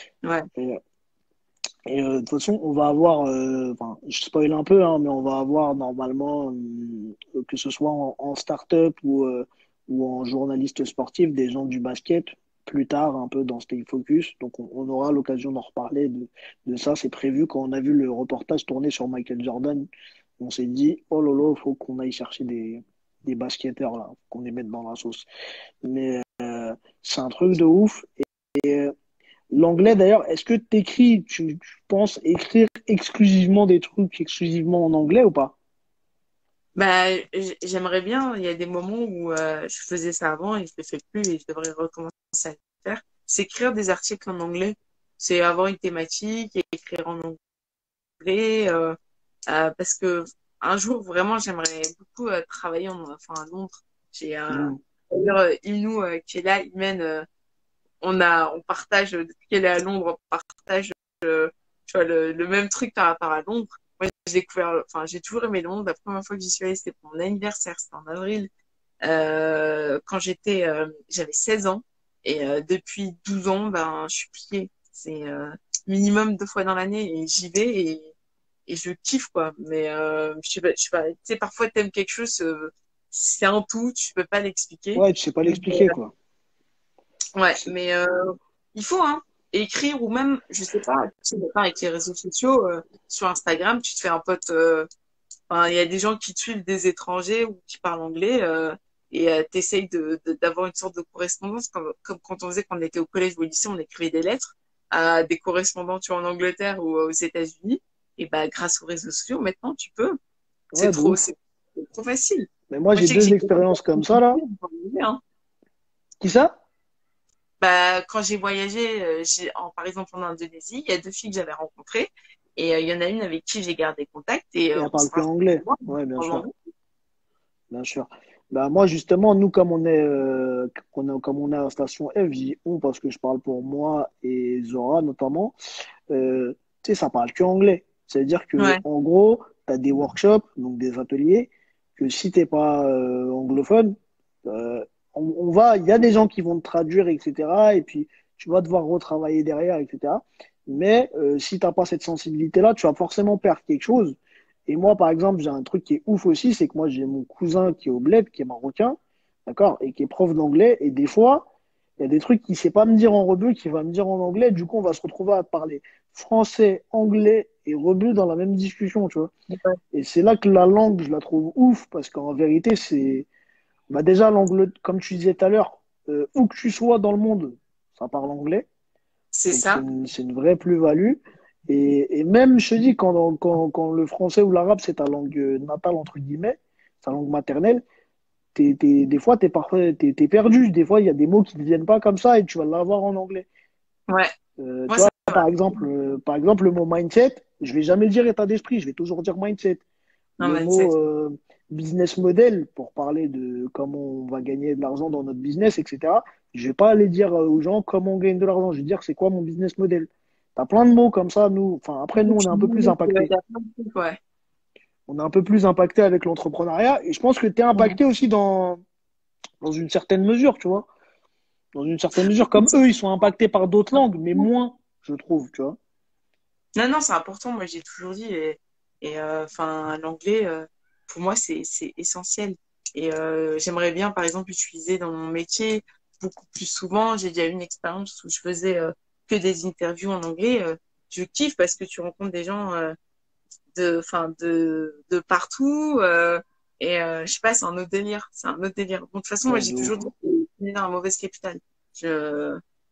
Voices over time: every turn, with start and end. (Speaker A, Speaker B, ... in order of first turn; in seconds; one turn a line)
Speaker A: 0.6-0.8
Speaker A: 1.9-19.9
Speaker A: 20.4-25.3
Speaker A: 25.9-28.9
Speaker A: 29.5-35.5
Speaker B: 36.8-47.4
Speaker B: 48.2-49.0
Speaker B: 49.5-57.3
Speaker A: 54.5-54.8
Speaker B: 58.0-68.5
Speaker B: 69.0-78.1
Speaker B: 78.7-86.0
Speaker A: 85.0-86.1
Speaker B: 87.4-94.9
Speaker B: 95.5-110.2
Speaker A: 110.7-111.2
Speaker B: 110.8-115.2
Speaker A: 112.7-114.4
Speaker A: 116.2-116.6
Speaker B: 117.6-126.5
Speaker A: 124.8-126.5
Speaker A: 127.7-135.6
Speaker A: 136.1-161.5
Speaker B: 138.6-138.8
Speaker A: 162.0-169.3
Speaker B: 169.5-169.8
Speaker A: 169.9-173.3
Speaker A: 173.9-178.7
Speaker B: 179.3-179.8
Speaker A: 179.5-187.8
Speaker A: 188.6-193.5
Speaker A: 194.6-199.8
Speaker B: 194.9-195.5
Speaker B: 200.4-200.9
Speaker A: 200.4-213.3
Speaker B: 212.2-214.2
Speaker A: 215.1-218.8
Speaker A: 219.6-220.9
Speaker A: 221.7-225.8
Speaker B: 226.8-242.9
Speaker B: 243.7-252.6
Speaker A: 249.5-249.9